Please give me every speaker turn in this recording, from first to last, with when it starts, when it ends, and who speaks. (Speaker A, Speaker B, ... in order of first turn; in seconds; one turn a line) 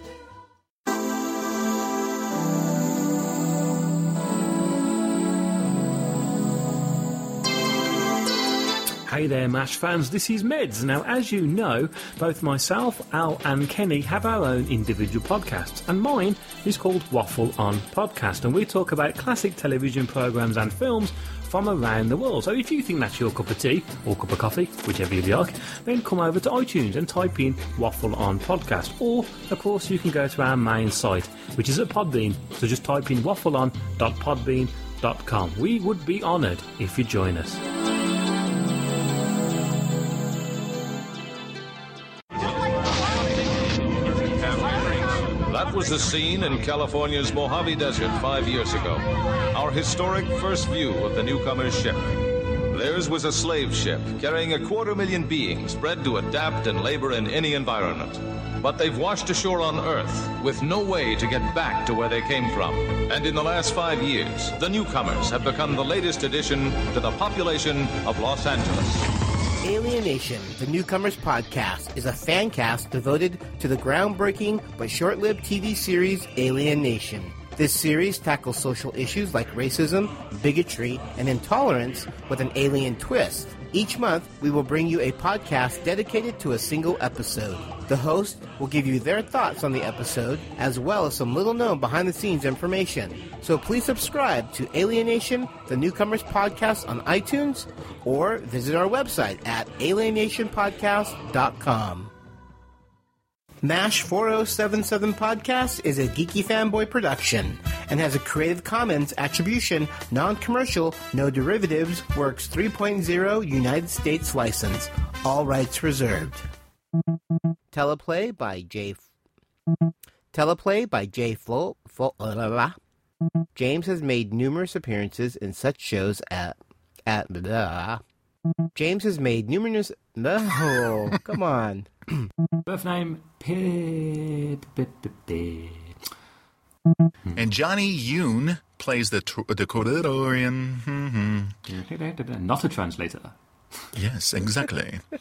Speaker A: 9.1-37.6
Speaker B: 44.2-52.1
Speaker B: 52.7-69.1
Speaker C: 69.6-102.1
Speaker C: 103.6-116.5
Speaker C: 117.7-119.0
Speaker C: 120.3-122.8
Speaker C: 123.5-128.0
Speaker C: 128.8-132.3
Speaker A: 132.7-135.9
Speaker D: 137.3-141.5
Speaker A: 141.7-143.3
Speaker D: 143.9-145.0